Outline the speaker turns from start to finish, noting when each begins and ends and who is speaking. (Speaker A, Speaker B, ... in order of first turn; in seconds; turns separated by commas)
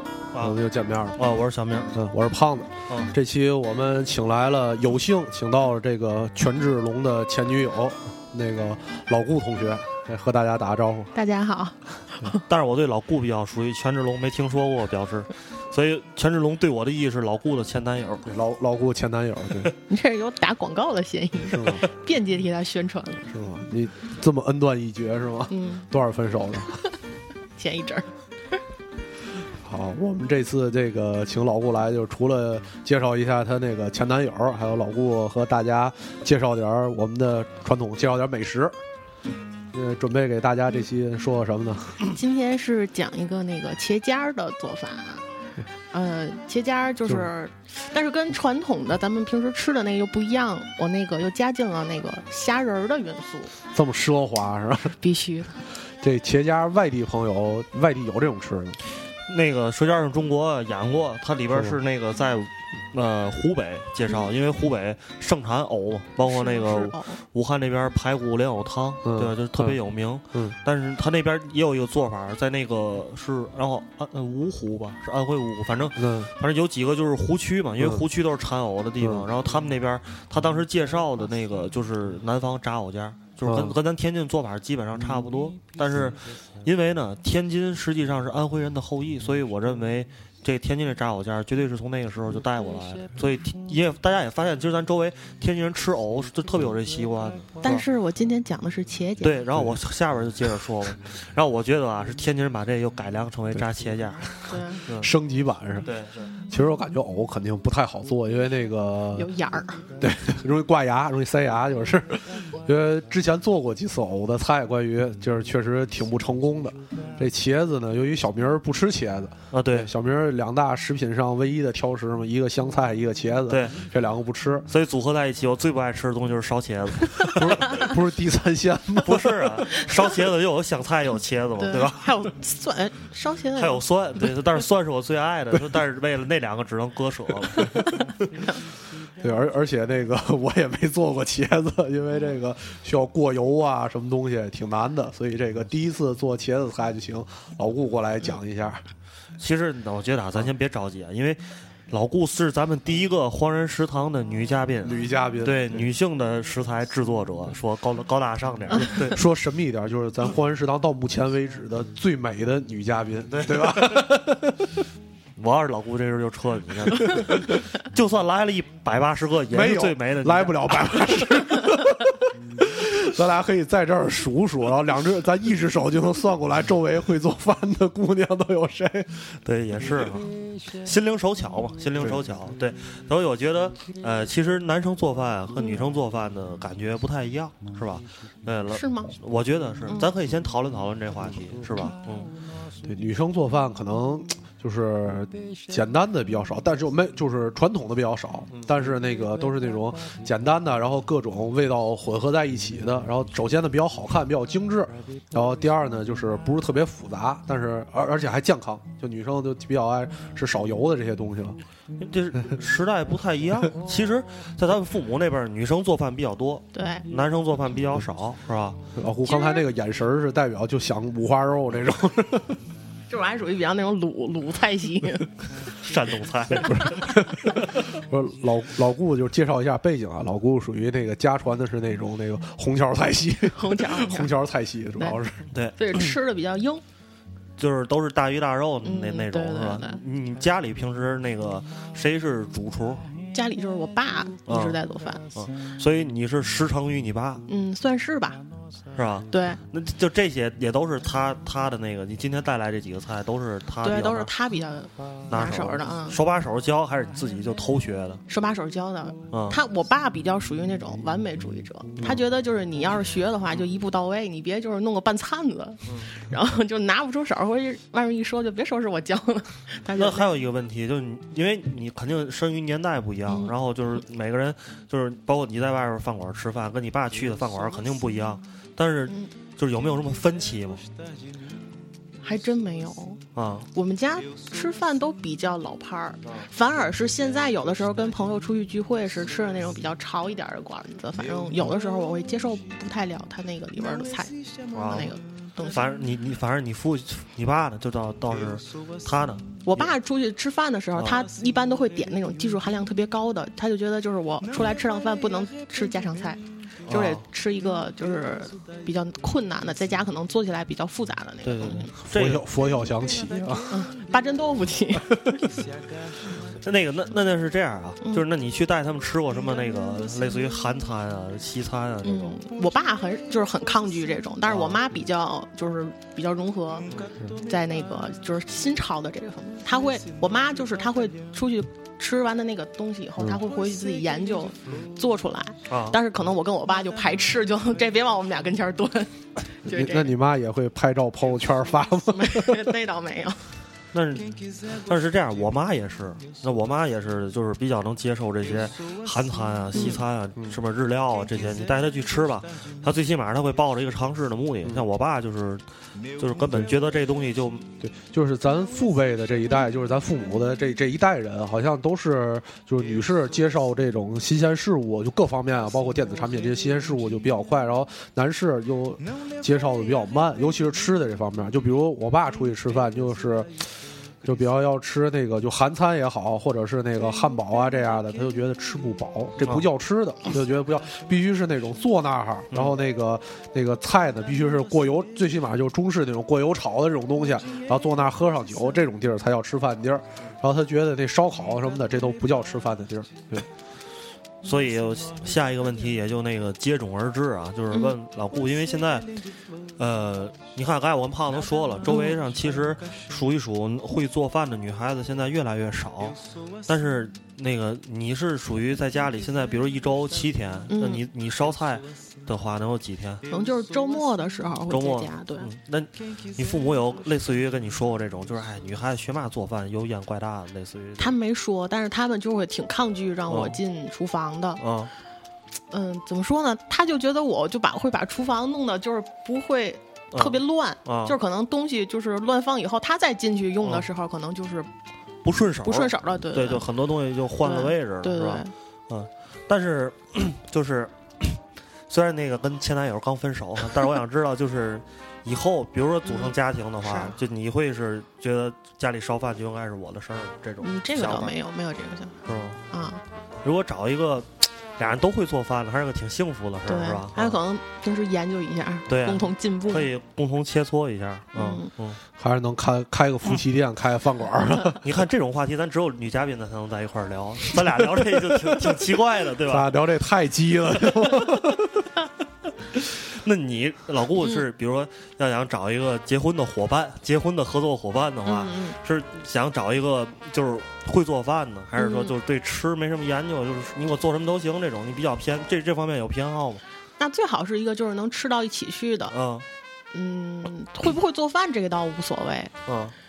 Speaker A: 0.3-0.6, Speaker B: 0.4-1.2, Speaker A: 1.2-1.9, Speaker B: 1.9-11.1, Speaker C: 11.1-12.4, Speaker A: 12.3-18.3, Speaker B: 18.3-19.7, Speaker C: 19.9-23.2, Speaker B: 21.5-21.9, Speaker B: 23.3-26.7, Speaker C: 25.5-25.9, Speaker C: 27.6-28.1, Speaker B: 29.6-38.8, Speaker B: 39.7-42.0, Speaker C: 42.0-45.2, Speaker C: 45.9-53.5, Speaker B: 53.7-55.0, Speaker C: 55.0-55.6, Speaker B: 56.0-58.8, Speaker A: 59.3-97.9, Speaker B: 61.5-61.8, Speaker C: 66.2-67.2, Speaker B: 69.0-69.8, Speaker B: 76.0-76.3, Speaker B: 77.8-78.0, Speaker B: 79.0-79.3, Speaker B: 83.5-83.8, Speaker C: 97.6-99.4, Speaker A: 99.2-105.1, Speaker C: 104.5-104.8, Speaker B: 105.0-105.9, Speaker A: 105.8-106.3, Speaker B: 106.5-109.3, Speaker C: 109.2-109.8, Speaker B: 110.0-124.7, Speaker A: 119.5-119.9, Speaker A: 123.5-123.8, Speaker A: 124.7-127.9, Speaker B: 127.2-129.6, Speaker A: 129.0-132.0, Speaker C: 131.6-134.3, Speaker A: 133.6-137.9, Speaker B: 139.2-148.8, Speaker A: 149.4-159.2, Speaker B: 154.8-155.9, Speaker B: 158.8-164.8, Speaker A: 163.3-164.1, Speaker A: 165.4-171.5, Speaker B: 167.1-167.5, Speaker B: 169.5-179.2, Speaker A: 179.4-192.3, Speaker C: 188.7-189.1, Speaker C: 189.9-190.1, Speaker B: 192.8-211.6, Speaker A: 198.5-198.8, Speaker A: 212.0-218.8, Speaker C: 216.7-217.1, Speaker B: 219.0-222.6, Speaker C: 219.2-219.7, Speaker C: 223.1-225.3, Speaker A: 225.8-227.0, Speaker B: 226.5-235.5, Speaker C: 233.5-234.3, Speaker A: 235.5-236.1, Speaker C: 235.8-236.8, Speaker A: 237.6-243.1, Speaker C: 238.8-240.0, Speaker C: 243.3-245.3, Speaker A: 244.5-244.8, Speaker A: 245.3-247.5, Speaker C: 247.5-248.4, Speaker A: 248.9-254.3, Speaker C: 249.3-249.6, Speaker C: 253.8-256.2, Speaker A: 255.3-258.2, Speaker C: 258.3-270.3, Speaker A: 259.3-259.6, Speaker A: 265.9-266.1, Speaker A: 269.9-280.8, Speaker C: 273.3-273.5, Speaker C: 282.2-283.2, Speaker A: 283.4-283.7, Speaker C: 283.7-295.8, Speaker A: 294.7-295.1, Speaker A: 295.6-299.9, Speaker C: 299.6-311.9, Speaker A: 301.0-301.2, Speaker A: 306.9-307.2, Speaker A: 311.4-312.4, Speaker B: 312.1-313.8, Speaker C: 313.7-315.2, Speaker A: 316.6-322.4, Speaker C: 322.0-340.1, Speaker A: 324.5-324.8, Speaker A: 335.7-336.0, Speaker B: 339.7-342.7, Speaker C: 342.1-343.4, Speaker A: 343.9-355.6, Speaker C: 349.7-350.0, Speaker A: 356.2-357.6, Speaker B: 357.8-373.6, Speaker B: 374.2-393.4, Speaker A: 379.4-379.7, Speaker A: 382.5-382.8, Speaker A: 394.4-399.1, Speaker A: 399.8-413.2, Speaker C: 401.9-402.2, Speaker C: 410.7-411.0, Speaker C: 413.3-415.5, Speaker A: 414.7-421.1, Speaker C: 421.0-424.6, Speaker A: 423.3-423.6, Speaker A: 424.6-424.9, Speaker C: 425.7-434.7, Speaker A: 430.1-431.1, Speaker A: 435.2-451.3, Speaker C: 435.6-436.6, Speaker C: 437.4-438.5, Speaker C: 446.0-447.1, Speaker C: 450.6-452.2, Speaker A: 452.2-452.6, Speaker C: 452.7-453.0, Speaker A: 453.4-457.4, Speaker C: 456.7-459.9, Speaker A: 458.9-462.0, Speaker C: 461.4-461.7, Speaker B: 462.2-464.8, Speaker A: 464.8-469.7, Speaker B: 469.5-471.9, Speaker A: 472.9-486.6, Speaker C: 478.2-478.8, Speaker C: 481.8-482.1, Speaker C: 487.0-489.1, Speaker A: 489.1-489.4, Speaker C: 489.9-492.5, Speaker A: 492.6-492.9